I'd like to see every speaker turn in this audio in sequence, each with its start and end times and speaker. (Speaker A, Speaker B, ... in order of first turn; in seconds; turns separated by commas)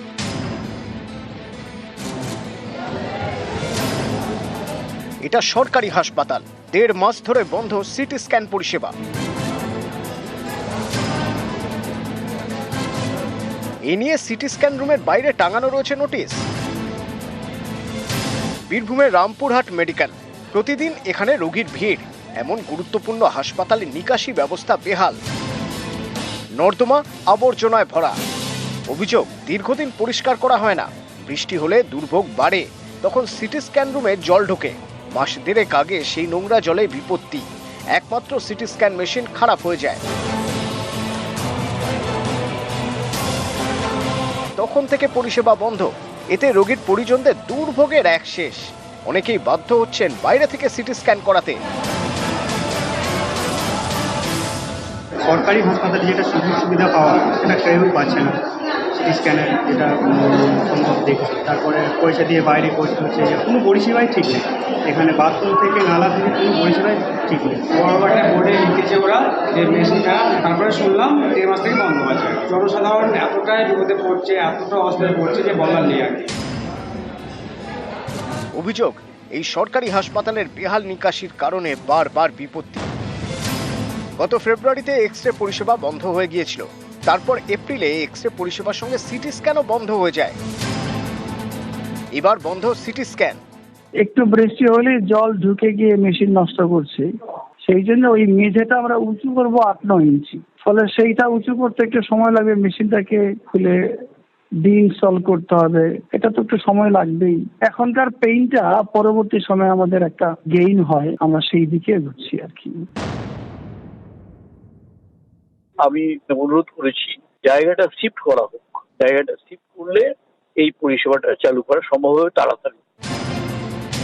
Speaker A: 5.2-8.9, Speaker A: 13.9-16.4, Speaker A: 18.7-25.2, Speaker A: 26.6-28.1, Speaker A: 28.9-40.0, Speaker A: 44.6-51.6, Speaker B: 55.2-58.4, Speaker B: 59.0-67.7, Speaker C: 67.7-76.3, Speaker A: 78.5-82.9, Speaker A: 84.2-90.4, Speaker A: 92.2-93.4, Speaker D: 94.0-97.1, Speaker D: 97.7-103.8, Speaker D: 104.6-112.8, Speaker E: 115.8-122.8